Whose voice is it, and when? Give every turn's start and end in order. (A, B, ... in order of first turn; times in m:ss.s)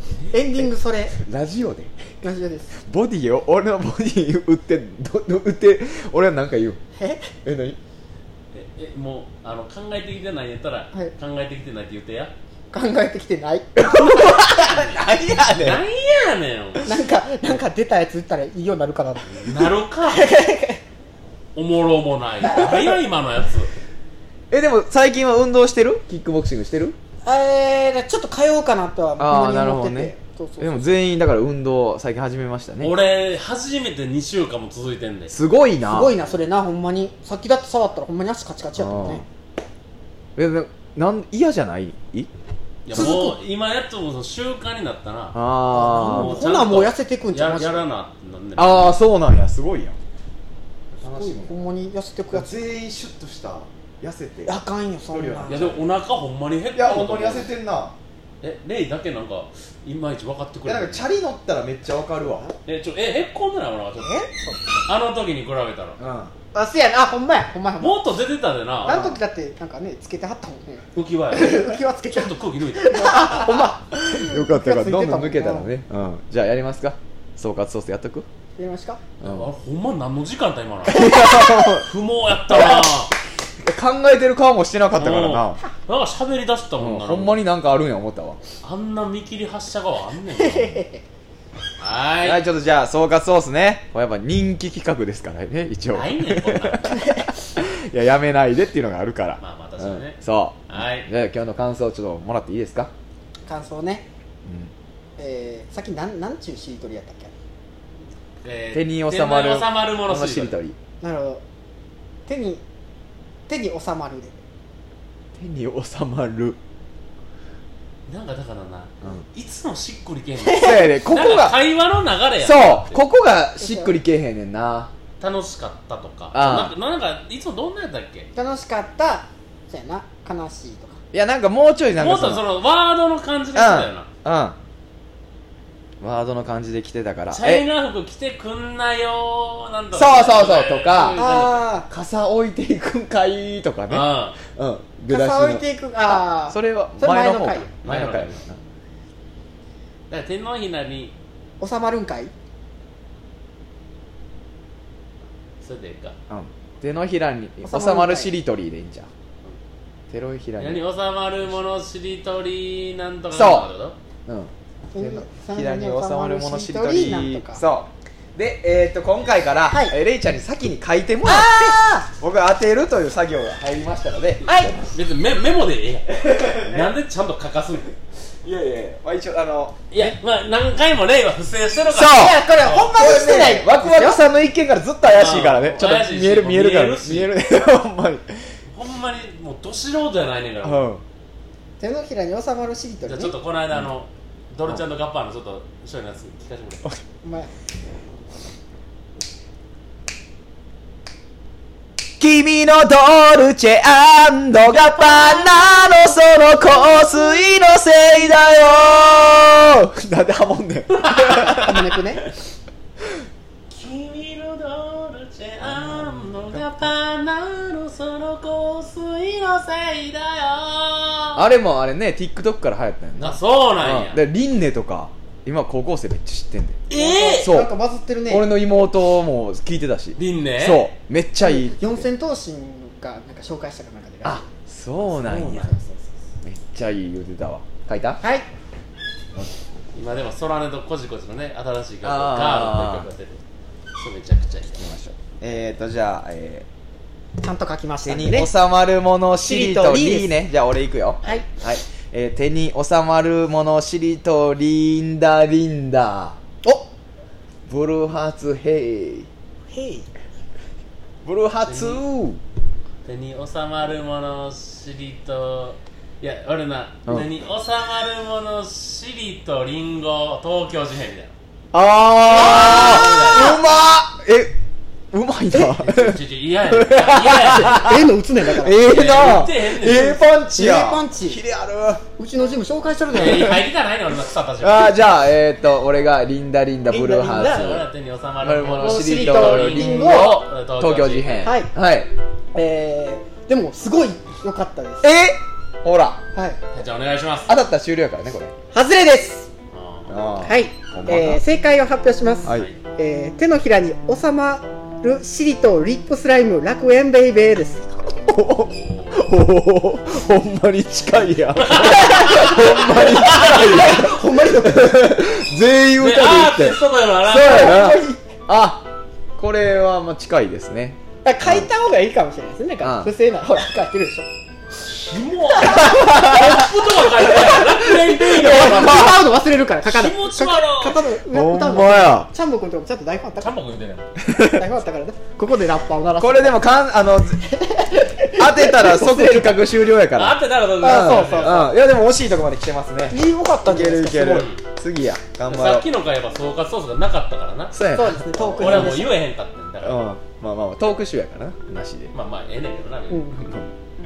0:00.3-0:01.2 A
0:01.2-0:02.0 B
0:02.2-0:02.8 A
0:02.8-0:06.8 B
0:07.0-0:07.3 A
0:07.4-0:07.8 B
0:08.5-0:12.3 C
0:12.7-0:14.7 A
0:13.8-0:15.8 B
0:15.6-0:16.9 C
0:16.8-0:20.8 A
0:19.3-0:20.3 C
0:21.6-0:23.7 C
0:22.4-0:23.0 B
0:24.5-0:27.0 B
0:27.2-0:30.9 A
0:29.2-0:33.0 B
0:32.8-0:35.3 C
0:35.3-0:36.1 B
0:35.9-0:39.2 A
0:38.8-0:39.2 B
0:40.4-0:42.3 B
0:42.9-0:45.4 C
0:42.9-0:43.3 B
0:43.0-0:43.4 A
0:45.3-0:46.4 B
0:45.7-0:47.9 A
0:46.0-0:49.0 C
0:48.6-0:50.0 B
0:50.9-0:51.6 B
0:51.0-0:52.6 A
0:52.3-0:55.8 B
0:54.4-0:55.7 A
0:55.5-0:57.5 C
0:56.8-0:58.0 B
0:58.4-1:01.1 C
1:00.6-1:02.5 B
1:02.7-1:04.3 C
1:04.0-1:04.9 A
1:04.9-1:06.0 C
1:06.0-1:06.3 B
1:06.5-1:08.1 A
1:07.8-1:09.0 C
1:08.8-1:15.7 A
1:08.8-1:09.2 B
1:11.0-1:13.4 C
1:13.9-1:18.3 B
1:18.6-1:19.0 A
1:19.2-1:19.5 B
1:19.2-1:23.1 C
1:20.9-1:21.8 B
1:21.0-1:21.5 A
1:22.5-1:22.9 B
1:22.6-1:22.8 A
1:23.6-1:25.6 B
1:25.0-1:27.4 C
1:26.8-1:28.4 B
1:28.6-1:30.8 C
1:30.4-1:31.0 A
1:31.8-1:32.4 C
1:32.2-1:42.9 B
1:35.9-1:37.0 C
1:36.9-1:37.3 A
1:39.4-1:40.2 C
1:40.7-1:41.1 C
1:43.5-1:44.1 A
1:44.4-1:44.7 B
1:45.2-1:47.3 A
1:48.4-1:50.6 C
1:48.7-1:50.8 B
1:51.0-1:51.4 A
1:52.3-1:52.6 A
1:53.5-1:54.4 A
1:55.4-1:56.6 B
1:58.1-2:03.0 C
2:00.4-2:00.8 A
2:00.5-2:01.6 B
2:02.4-2:04.9 B
2:03.6-2:03.9 A
2:05.2-2:08.3 C
2:06.3-2:06.7 B
2:08.4-2:11.0 A
2:11.1-2:12.4 B
2:12.0-2:14.1 C
2:13.6-2:14.6 B
2:16.0-2:17.7 B
2:17.3-2:21.7 C
2:19.9-2:28.6 B
2:21.2-2:21.9 A
2:23.9-2:24.4 C
2:25.1-2:27.7 A
2:27.8-2:28.4 C
2:30.1-2:31.2 C
2:31.6-2:32.3 A
2:35.6-2:36.2 C
2:36.3-2:39.1 B
2:37.6-2:38.3 A
2:40.1-2:40.8 B
2:40.6-2:44.0 C
2:43.3-2:43.7 B
2:44.3-2:54.8 B
2:44.9-2:47.6 A
2:49.7-2:50.0 A
2:51.2-2:52.1 A
2:54.4-2:54.8 A
2:54.9-2:57.9 C
2:56.1-2:56.9 B
2:58.4-3:00.2 B
2:59.9-3:02.9 C
3:01.9-3:02.4 B
3:02.1-3:04.2 A
3:02.9-3:08.5 B
3:05.1-3:07.3 C
3:08.7-3:10.8 C
3:10.6-3:11.0 B
3:11.8-3:13.3 A
3:13.1-3:16.8 C
3:17.2-3:17.5 A
3:22.2-3:31.9 B
3:24.7-3:26.1 C
3:31.0-3:31.8 C
3:31.5-3:32.2 A
3:33.7-3:41.5 C
3:35.6-3:36.7 B
3:41.4-3:46.8 B
3:43.2-3:44.2 C
3:46.9-3:47.6 C
3:46.9-3:48.5 A
3:47.4-3:47.7 B
3:48.3-3:52.1 B
3:50.2-3:50.9 C
3:51.4-3:54.5 A
3:54.2-3:55.8 B
3:55.2-3:55.9 A
3:55.3-3:55.7 C
3:56.4-3:58.2 B
3:58.2-3:58.5 A
3:59.9-4:03.4 C
4:02.0-4:03.1 B
4:04.0-4:04.8 C
4:04.8-4:06.7 B
4:07.4-4:08.5 A
4:08.0-4:16.4 B
4:09.4-4:10.4 A
4:17.7-4:19.3 B
4:19.7-4:20.1 A
4:21.2-4:22.4 B
4:21.7-4:22.0 C
4:23.0-4:31.3 C
4:31.7-4:34.5 B
4:32.3-4:33.6 C
4:32.5-4:33.3 A
4:35.1-4:42.0 B
4:35.8-4:37.9 C
4:37.5-4:38.8 A
4:38.8-4:40.2 C
4:40.6-4:41.4 A
4:42.2-4:43.6 A
4:43.1-4:45.0 C
4:43.2-4:43.6 B
4:44.6-4:47.9 B
4:46.9-4:47.8 A
4:47.2-4:51.6 C
4:48.4-4:52.1 B
4:48.7-4:50.4 A
4:51.4-4:51.7 A
4:52.6-4:55.1 A
4:55.0-4:56.2 B
4:56.7-4:57.5 C
4:57.5-4:58.5 B
4:58.7-4:59.5 A
4:59.7-5:00.1 C
5:00.1-5:01.4 B
5:00.4-5:07.9 A
5:02.4-5:02.7 B
5:02.5-5:02.8 C
5:08.3-5:21.7 B
5:08.6-5:09.3 C
5:11.5-5:13.5 C
5:12.0-5:15.2 A
5:16.0-5:17.9 C
5:17.4-5:18.2 A
5:21.2-5:24.3 A
5:22.8-5:23.1 B
5:24.8-5:29.3 C
5:25.6-5:26.1 A
5:25.7-5:26.7 B
5:27.3-5:33.6 A
5:28.4-5:29.2 B
5:29.8-5:31.0 C
5:31.3-5:32.3 B
5:33.4-5:34.1 C
5:34.2-5:34.7 B
5:34.4-5:36.6 A
5:36.2-5:37.4 B
5:37.5-5:39.6 A
5:38.3-5:45.9 B
5:40.1-5:41.7 C
5:40.8-5:41.7 A
5:43.1-5:44.5 A
5:44.2-5:44.6 C
5:45.5-5:47.8 C
5:47.7-5:49.1 B
5:47.9-5:49.2 A
5:48.6-5:50.0 C
5:49.8-5:52.1 B
5:52.1-5:53.3 C
5:53.1-5:53.4 A
5:53.4-5:53.7 B